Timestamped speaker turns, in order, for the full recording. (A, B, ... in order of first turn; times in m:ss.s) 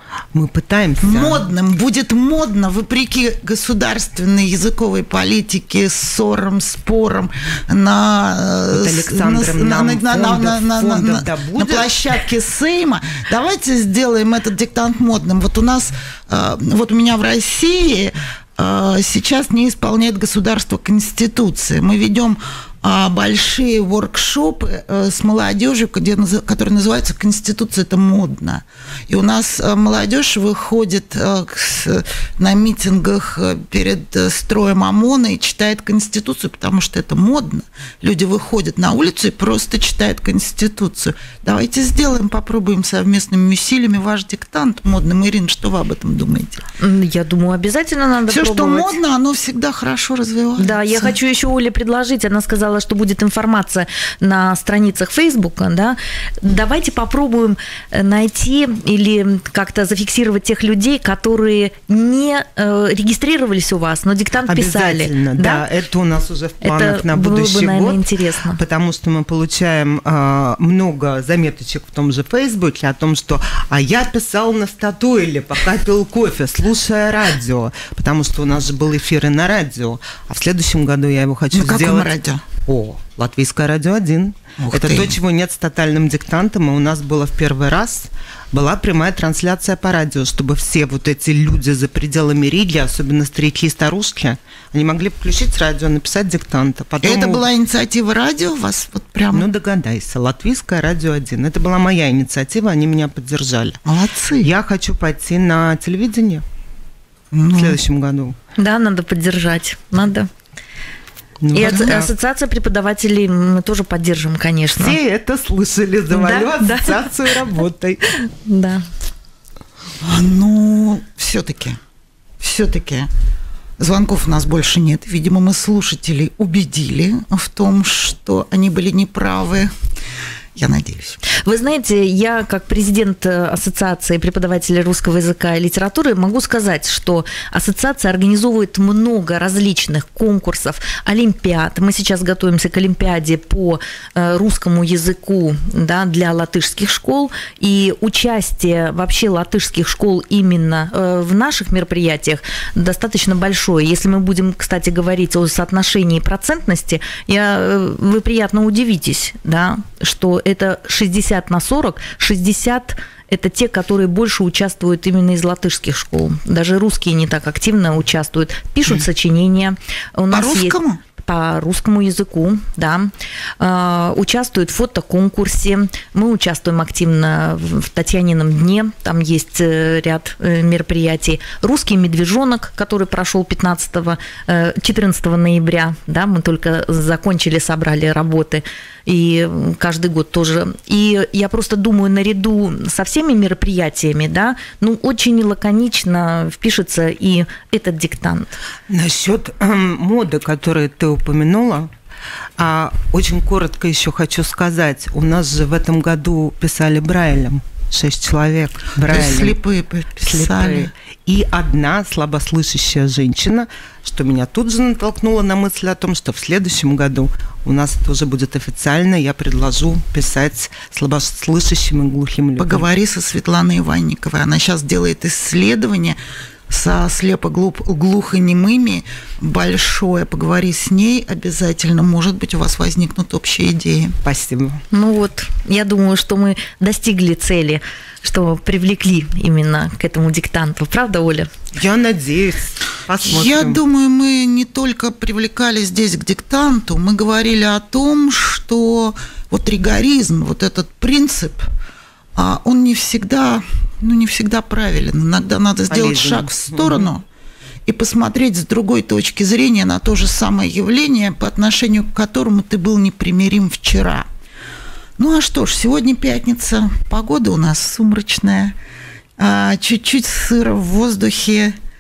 0:00.3-0:01.4 A
0:01.0-0:46.6 B
0:08.7-0:12.0 A
0:46.8-0:49.0 C
0:48.3-0:51.1 B
0:50.6-1:05.6 C
1:04.5-1:37.4 A
1:06.6-1:08.6 C
1:21.5-1:22.4 B
1:24.6-1:25.2 B
1:37.0-1:39.5 B
1:39.3-1:43.8 A
1:43.9-1:44.5 B
1:44.4-1:46.4 A
1:47.3-1:47.8 B
1:47.5-1:48.4 A
1:48.6-1:50.3 C
1:51.4-1:52.1 A
1:51.5-1:55.0 C
1:51.6-1:52.0 B
1:54.8-1:58.0 A
1:56.1-1:57.1 C
1:58.2-1:58.8 C
2:00.0-2:01.8 B
2:02.4-2:03.1 B
2:03.8-2:09.7 B
2:10.6-2:11.2 B
2:11.3-3:18.6 C
2:50.3-2:51.0 B
3:18.9-3:21.9 A
3:22.6-3:29.6 A
3:29.0-3:30.9 B
3:30.2-3:42.8 A
3:42.6-3:46.2 B
3:46.7-3:54.2 B
3:54.2-3:54.8 A
3:54.9-4:01.5 C
4:01.7-4:03.8 A
4:03.2-4:11.7 B
4:12.4-4:17.2 B
4:15.9-4:17.1 A
4:17.9-4:24.3 B
4:25.2-4:28.8 B
4:29.4-4:31.8 B